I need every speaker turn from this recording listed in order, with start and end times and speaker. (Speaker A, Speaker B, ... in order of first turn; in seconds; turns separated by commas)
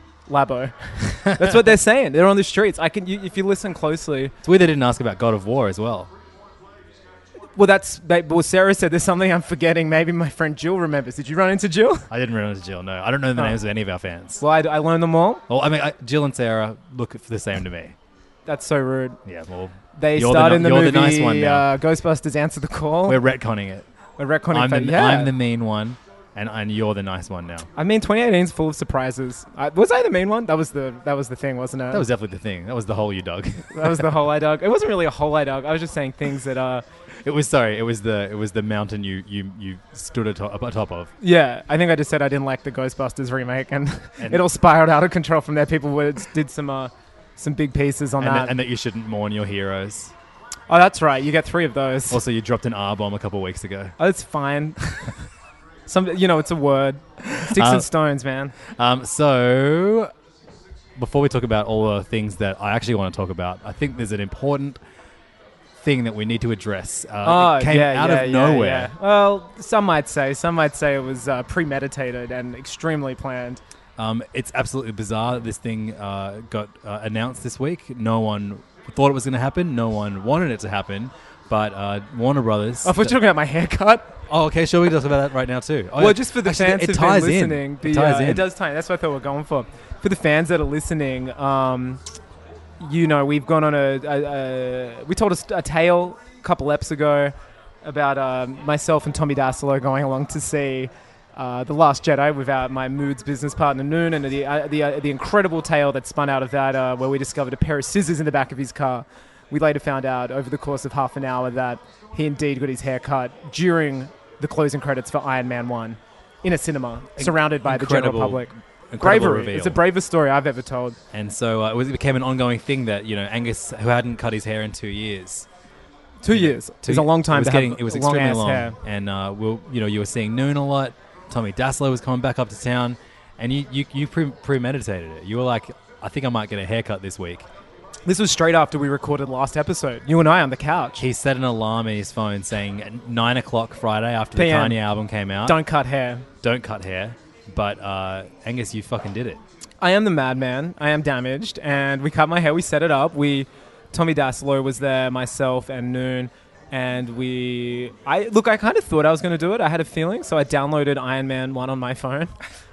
Speaker A: 0.3-4.3, Speaker B: 4.4-6.1, Speaker A: 7.5-12.1, Speaker B: 12.1-14.4, Speaker A: 14.4-15.4, Speaker B: 15.5-17.9, Speaker A: 18.5-19.2, Speaker B: 19.2-21.6, Speaker A: 19.9-23.2, Speaker B: 23.1-23.9, Speaker A: 24.2-25.3, Speaker B: 24.5-27.7, Speaker A: 27.8-32.0, Speaker B: 31.9-34.2, Speaker A: 33.7-36.8, Speaker B: 37.2-41.1, Speaker A: 41.2-48.5, Speaker B: 44.2-44.4, Speaker B: 48.2-50.1, Speaker A: 50.7-52.2, Speaker B: 52.1-54.0, Speaker A: 54.0-54.8, Speaker A: 55.9-58.5, Speaker B: 57.2-57.9, Speaker B: 58.7-60.1, Speaker B: 61.0-64.8, Speaker B: 65.8-68.9, Speaker A: 67.2-73.6, Speaker B: 74.0-83.2, Speaker A: 82.8-84.1, Speaker B: 84.3-88.5, Speaker A: 86.0-92.0, Speaker A: 92.8-121.0, Speaker B: 117.2-119.8, Speaker B: 121.1-125.5, Speaker A: 126.2-128.8, Speaker B: 126.3-137.4, Speaker A: 138.1-141.0, Speaker B: 141.0-145.6, Speaker A: 144.3-144.8, Speaker A: 145.4-146.2, Speaker B: 146.4-149.4, Speaker A: 149.8-162.3